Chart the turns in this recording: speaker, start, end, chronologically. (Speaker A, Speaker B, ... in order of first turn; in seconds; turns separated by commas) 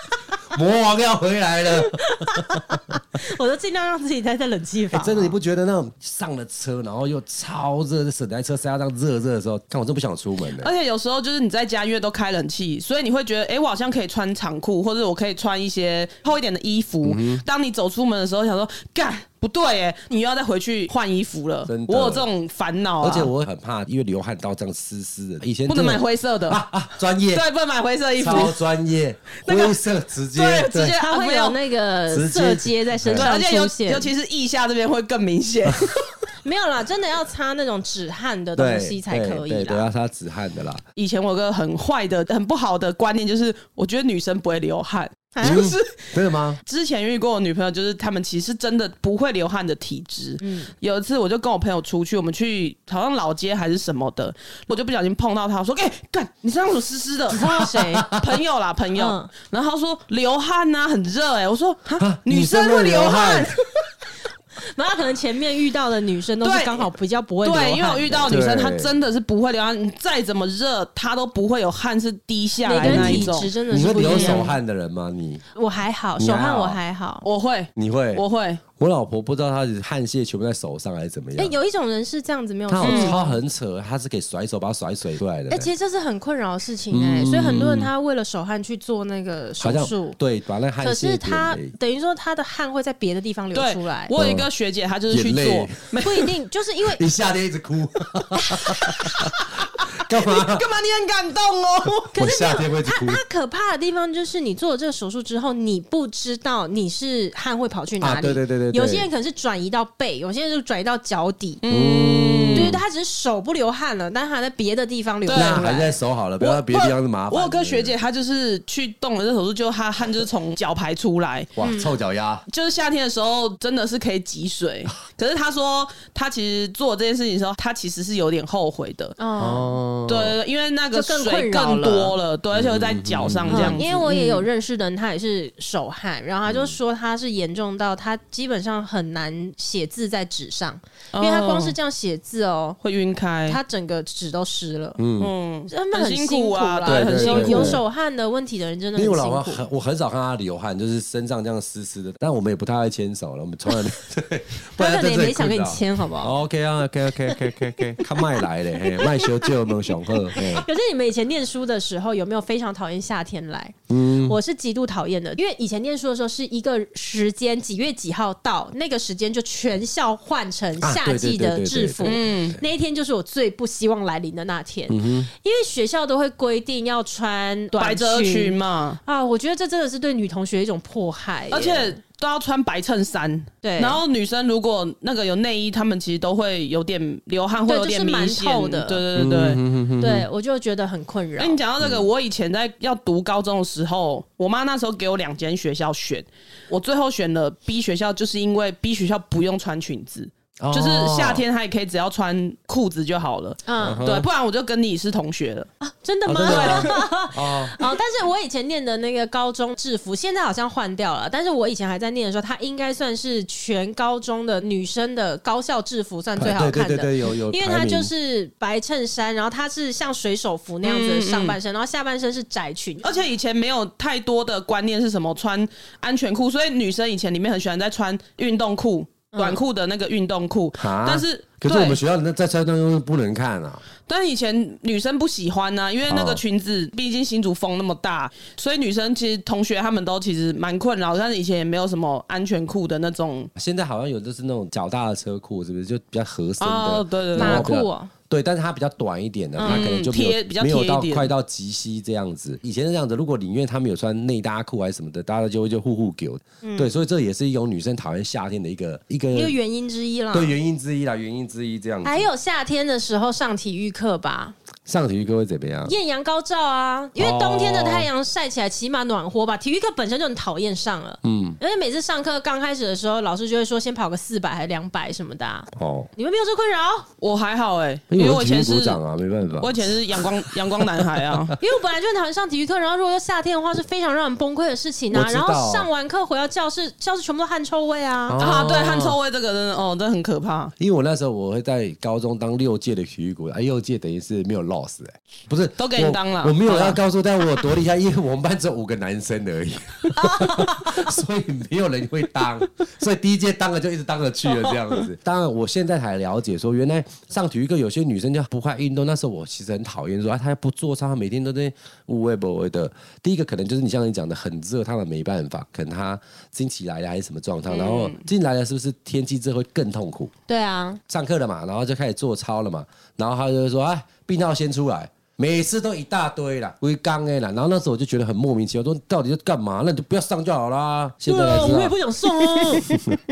Speaker A: 0.5-2.4, Speaker B: 1.7-5.3, Speaker A: 4.9-10.7, Speaker C: 10.6-23.3, Speaker A: 17.0-17.4, Speaker A: 21.7-22.3, Speaker A: 23.0-27.4, Speaker C: 25.6-26.6, Speaker C: 27.3-28.5, Speaker A: 28.2-30.9, Speaker C: 30.3-31.6, Speaker B: 30.8-34.1, Speaker A: 32.1-33.3, Speaker C: 33.1-36.0, Speaker B: 36.4-39.9, Speaker A: 38.5-40.8, Speaker C: 41.0-46.0, Speaker B: 45.4-45.7, Speaker A: 45.4-46.6, Speaker C: 46.6-63.8, Speaker B: 50.4-50.7, Speaker B: 57.3-58.1, Speaker A: 57.7-58.3, Speaker B: 58.9-59.3, Speaker A: 62.0-63.5, Speaker B: 64.6-68.4, Speaker C: 66.4-66.9, Speaker C: 67.4-73.5, Speaker A: 68.2-68.9, Speaker B: 72.6-74.6, Speaker A: 72.8-75.4, Speaker C: 74.0-74.5, Speaker B: 75.5-77.2, Speaker A: 76.2-76.8, Speaker C: 77.2-78.6, Speaker A: 77.8-78.2, Speaker A: 78.8-81.5, Speaker B: 81.4-83.4, Speaker A: 82.7-85.7, Speaker C: 82.8-83.2, Speaker B: 85.5-90.2, Speaker A: 86.9-87.9, Speaker A: 89.6-91.7, Speaker B: 90.8-94.1, Speaker C: 93.5-96.3, Speaker A: 94.1-94.5, Speaker A: 95.1-95.9, Speaker B: 96.0-97.0, Speaker A: 96.9-99.3, Speaker C: 98.9-99.3, Speaker A: 100.0-100.7, Speaker C: 100.1-102.2, Speaker A: 102.2-103.2, Speaker B: 102.2-111.6, Speaker A: 108.0-109.1, Speaker C: 111.6-112.8, Speaker A: 111.7-112.8, Speaker B: 112.5-115.9, Speaker C: 115.2-115.8, Speaker A: 115.3-118.0, Speaker C: 116.4-121.5, Speaker A: 121.5-122.4, Speaker B: 121.6-121.9, Speaker C: 122.5-129.2, Speaker B: 129.2-129.7, Speaker A: 129.4-130.4, Speaker C: 130.1-134.5, Speaker B: 130.9-132.1, Speaker A: 132.5-133.8, Speaker B: 133.5-142.8, Speaker A: 136.4-136.7, Speaker C: 141.1-141.8, Speaker C: 142.8-143.6, Speaker B: 143.5-145.0, Speaker A: 145.0-145.3, Speaker C: 145.2-147.8, Speaker B: 145.7-149.6, Speaker A: 146.8-147.8, Speaker A: 148.9-160.7, Speaker B: 154.8-156.3, Speaker B: 157.9-158.2, Speaker B: 158.8-182.0, Speaker A: 163.9-164.4, Speaker A: 170.8-172.2, Speaker C: 172.0-172.6, Speaker A: 174.9-175.3, Speaker C: 177.8-179.0, Speaker C: 181.5-189.6, Speaker B: 183.6-184.0, Speaker B: 187.7-189.0, Speaker A: 189.1-190.3, Speaker B: 190.0-191.6, Speaker C: 191.4-205.7, Speaker A: 191.8-192.1, Speaker A: 200.6-201.4, Speaker B: 203.7-204.0, Speaker A: 203.8-204.3, Speaker B: 205.8-223.2, Speaker A: 206.2-207.8, Speaker C: 206.4-207.0, Speaker A: 216.4-218.1, Speaker C: 220.8-221.6, Speaker C: 223.0-232.0, Speaker B: 229.3-229.6, Speaker A: 230.8-233.8, Speaker C: 234.1-243.5, Speaker A: 236.1-236.4, Speaker A: 243.6-259.6, Speaker C: 246.6-247.8, Speaker B: 247.3-248.1, Speaker C: 249.6-251.3, Speaker B: 256.6-256.9, Speaker B: 259.3-260.5, Speaker A: 260.3-262.3, Speaker B: 262.0-264.6, Speaker A: 264.9-265.9, Speaker B: 265.8-277.1, Speaker A: 267.2-268.1, Speaker A: 271.2-271.6, Speaker A: 275.8-276.1, Speaker C: 277.2-279.0, Speaker A: 278.1-280.3, Speaker C: 279.6-281.6, Speaker B: 281.6-288.4, Speaker A: 285.1-285.9, Speaker A: 288.3-289.2, Speaker C: 288.4-290.7, Speaker A: 290.8-320.3, Speaker C: 295.8-297.0, Speaker B: 300.2-301.0, Speaker C: 317.7-318.2, Speaker B: 320.5-321.0, Speaker A: 321.1-331.9, Speaker B: 331.3-333.1, Speaker A: 332.8-333.2